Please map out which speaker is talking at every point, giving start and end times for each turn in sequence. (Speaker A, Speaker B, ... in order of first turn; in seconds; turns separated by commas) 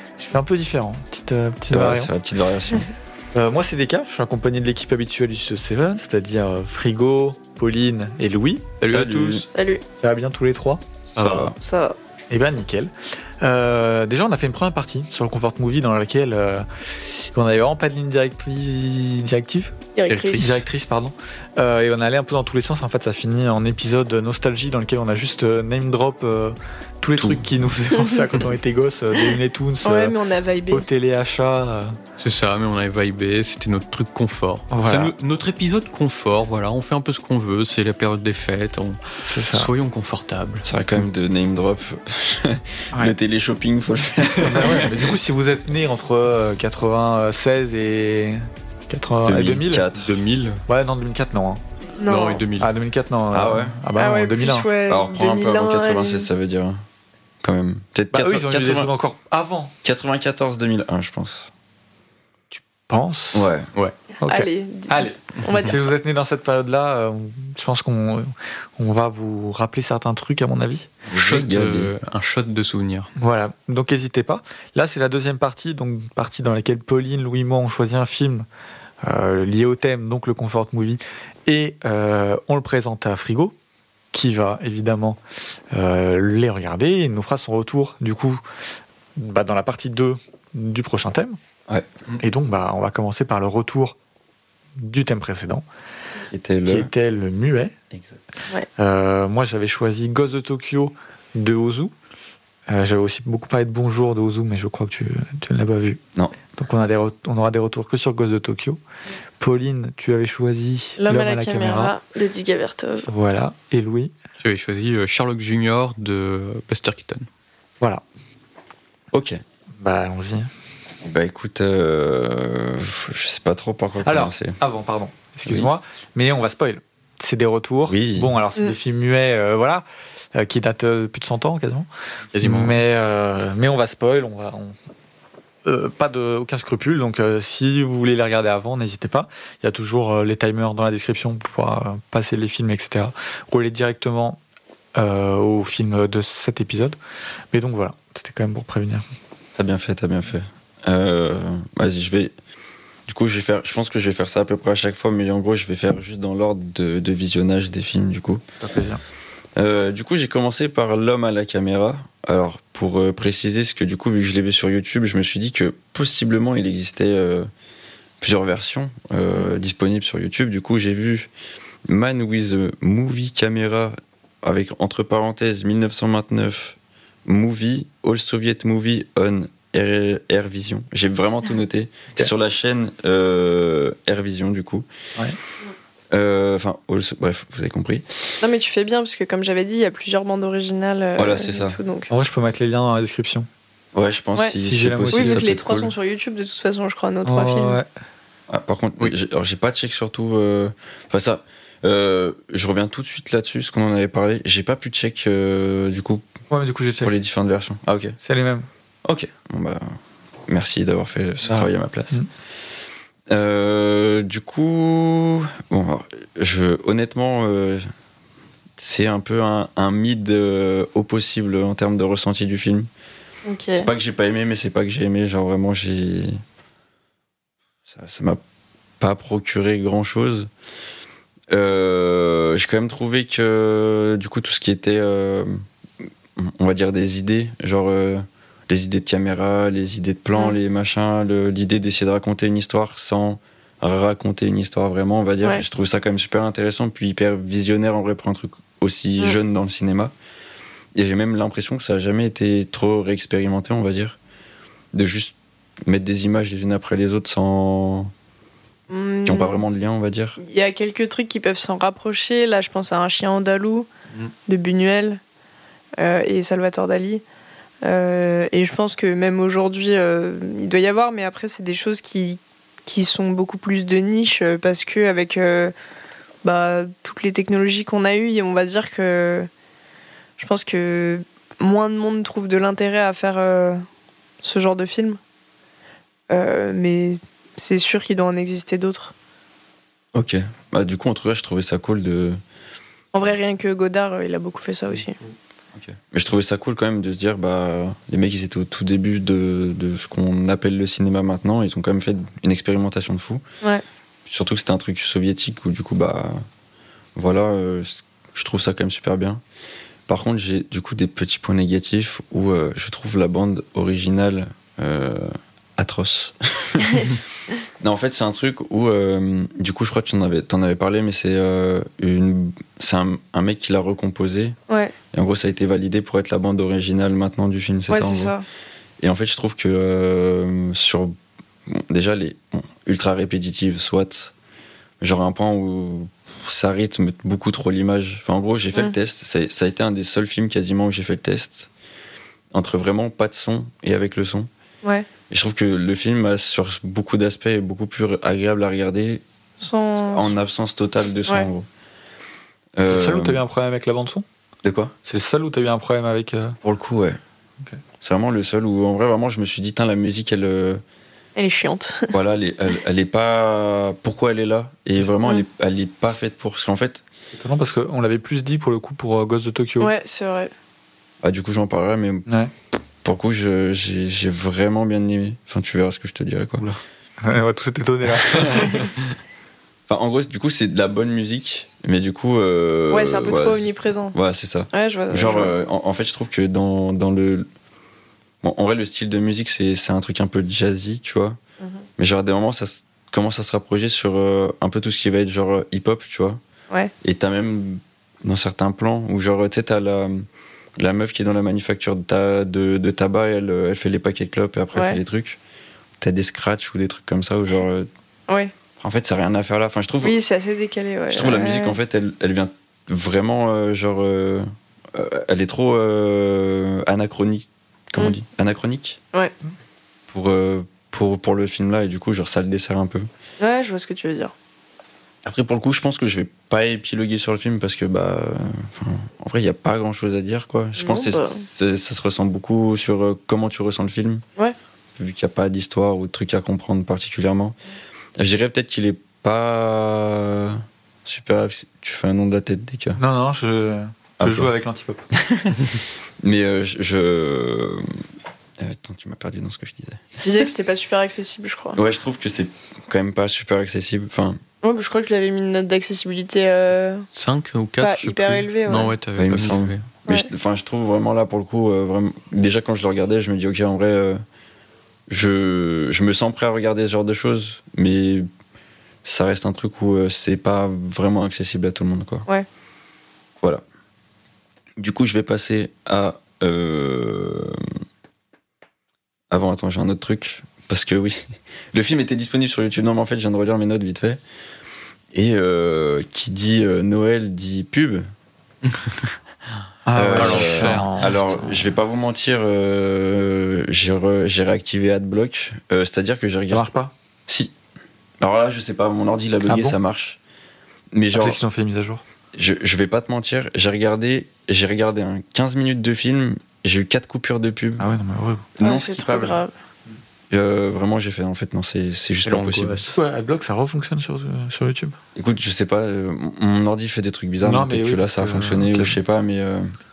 Speaker A: 0.2-2.1, Speaker B: 1.7-2.9, Speaker A: 3.3-8.7, Speaker C: 8.8-9.4, Speaker B: 8.9-9.5, Speaker D: 9.5-9.8, Speaker A: 10.0-10.8, Speaker C: 11.2-11.5, Speaker B: 11.2-11.6, Speaker D: 11.6-12.0, Speaker A: 12.3-19.8, Speaker D: 19.9-20.6, Speaker C: 20.1-20.6, Speaker A: 20.3-30.2, Speaker B: 27.2-27.5, Speaker D: 27.9-28.3, Speaker D: 29.2-30.9, Speaker A: 30.7-32.0, Speaker C: 32.2-40.7, Speaker A: 34.7-35.1, Speaker A: 39.2-39.7, Speaker B: 40.6-45.1, Speaker C: 44.4-44.7, Speaker A: 44.4-49.9, Speaker B: 49.3-50.6, Speaker C: 50.0-50.5, Speaker A: 50.7-51.6, Speaker D: 52.0-52.5, Speaker C: 52.0-52.7, Speaker A: 52.6-54.7, Speaker B: 53.3-53.8, Speaker D: 54.0-56.3, Speaker B: 54.9-56.8, Speaker B: 57.4-58.9, Speaker A: 58.1-59.7, Speaker B: 59.8-61.5, Speaker A: 62.5-63.5, Speaker B: 63.3-63.7, Speaker A: 64.2-70.9, Speaker D: 64.2-65.9, Speaker C: 65.4-65.7, Speaker B: 71.1-71.9, Speaker C: 71.1-73.1, Speaker A: 73.2-78.5, Speaker A: 79.0-83.5, Speaker A: 84.1-85.2, Speaker A: 85.7-88.4, Speaker A: 89.2-91.4, Speaker A: 92.2-94.0, Speaker A: 94.8-95.7, Speaker B: 96.3-96.9, Speaker A: 96.7-97.7, Speaker A: 98.8-101.9, Speaker A: 102.7-106.0, Speaker A: 106.5-108.8, Speaker A: 109.4-111.9, Speaker D: 111.0-113.1, Speaker A: 113.1-114.1, Speaker C: 114.4-117.3, Speaker B: 119.1-119.4, Speaker A: 119.8-120.5, Speaker B: 121.0-124.6, Speaker A: 124.0-131.9, Speaker B: 127.9-128.3, Speaker C: 132.3-132.8, Speaker A: 132.4-134.8, Speaker A: 135.7-144.4, Speaker A: 145.0-147.0, Speaker A: 147.5-149.1, Speaker B: 149.6-152.3, Speaker B: 153.1-158.4, Speaker A: 158.6-159.0, Speaker B: 159.6-167.5, Speaker B: 168.2-171.3, Speaker B: 171.9-184.9, Speaker B: 186.1-188.4, Speaker D: 188.4-192.1, Speaker B: 191.2-191.8, Speaker A: 192.1-193.5, Speaker B: 193.9-195.9, Speaker A: 194.6-195.5, Speaker D: 195.1-197.8, Speaker A: 197.2-197.9, Speaker B: 198.5-206.3, Speaker A: 206.5-207.1, Speaker B: 207.0-208.2, Speaker A: 208.2-208.7, Speaker B: 209.1-209.9, Speaker B: 210.5-212.2, Speaker A: 211.4-212.3, Speaker B: 213.3-217.9, Speaker B: 218.8-222.9, Speaker D: 223.4-223.9, Speaker B: 223.7-226.4, Speaker B: 227.9-228.4, Speaker B: 229.0-230.5, Speaker B: 231.5-235.7, Speaker B: 236.4-250.1, Speaker B: 250.9-254.2, Speaker B: 254.9-255.3, Speaker B: 255.9-258.1, Speaker D: 258.9-259.6, Speaker B: 259.2-260.4, Speaker D: 260.4-263.9, Speaker D: 264.5-265.2, Speaker D: 266.0-267.2, Speaker D: 267.8-275.7, Speaker D: 276.4-279.5, Speaker D: 280.4-283.9, Speaker D: 284.4-285.2, Speaker D: 286.3-289.1, Speaker B: 290.1-292.4, Speaker D: 293.1-295.2, Speaker B: 295.7-303.4, Speaker B: 304.3-306.4, Speaker B: 307.2-309.4, Speaker B: 310.1-317.2, Speaker B: 317.8-324.6, Speaker D: 324.7-325.0, Speaker B: 325.1-328.3, Speaker D: 327.9-328.4, Speaker B: 329.0-331.1, Speaker B: 331.7-334.3, Speaker B: 335.0-341.7, Speaker B: 342.5-344.5, Speaker D: 344.8-345.1, Speaker B: 345.3-349.2, Speaker D: 349.6-350.3, Speaker B: 350.1-351.7, Speaker B: 352.8-353.4, Speaker A: 352.8-354.2, Speaker B: 354.6-354.9, Speaker A: 355.1-356.6, Speaker B: 356.6-357.2, Speaker B: 358.0-360.8, Speaker D: 361.4-362.2, Speaker B: 362.1-367.0, Speaker A: 367.3-369.9, Speaker D: 369.8-370.5, Speaker B: 371.2-372.3, Speaker B: 373.0-376.8, Speaker A: 377.2-378.9, Speaker B: 378.3-378.8, Speaker B: 379.9-387.5, Speaker D: 382.9-384.1, Speaker D: 384.7-385.5, Speaker B: 388.4-391.4, Speaker B: 392.0-396.4, Speaker B: 397.0-400.3, Speaker B: 400.8-405.4, Speaker D: 404.7-405.0, Speaker B: 406.0-407.9, Speaker D: 408.3-408.5, Speaker B: 408.8-410.2, Speaker D: 410.0-411.8, Speaker B: 411.1-419.0, Speaker B: 420.1-423.1, Speaker D: 423.4-424.3, Speaker B: 425.2-434.2, Speaker D: 430.8-431.4, Speaker B: 435.0-437.6, Speaker B: 438.2-443.0, Speaker A: 443.0-445.0, Speaker B: 444.2-444.5, Speaker B: 445.1-448.0, Speaker B: 448.6-450.2, Speaker D: 450.2-451.8, Speaker B: 451.8-454.4, Speaker D: 454.6-457.1, Speaker C: 457.1-459.9, Speaker D: 457.8-458.9, Speaker B: 459.2-464.2, Speaker B: 465.1-468.3, Speaker B: 469.0-472.3, Speaker B: 474.8-477.6, Speaker B: 479.3-484.2, Speaker B: 485.1-488.1, Speaker C: 488.7-489.1, Speaker A: 489.9-491.7, Speaker B: 489.9-496.7, Speaker C: 490.1-490.9, Speaker A: 496.5-496.9, Speaker B: 497.3-497.5, Speaker B: 498.2-500.2, Speaker A: 499.5-499.8, Speaker B: 500.9-501.4, Speaker A: 501.1-502.0, Speaker B: 502.4-507.9, Speaker A: 507.8-508.5, Speaker B: 508.6-509.4, Speaker D: 508.6-509.5, Speaker B: 510.3-512.8, Speaker C: 512.3-513.0, Speaker A: 512.9-515.0, Speaker B: 515.2-519.7, Speaker A: 517.4-519.0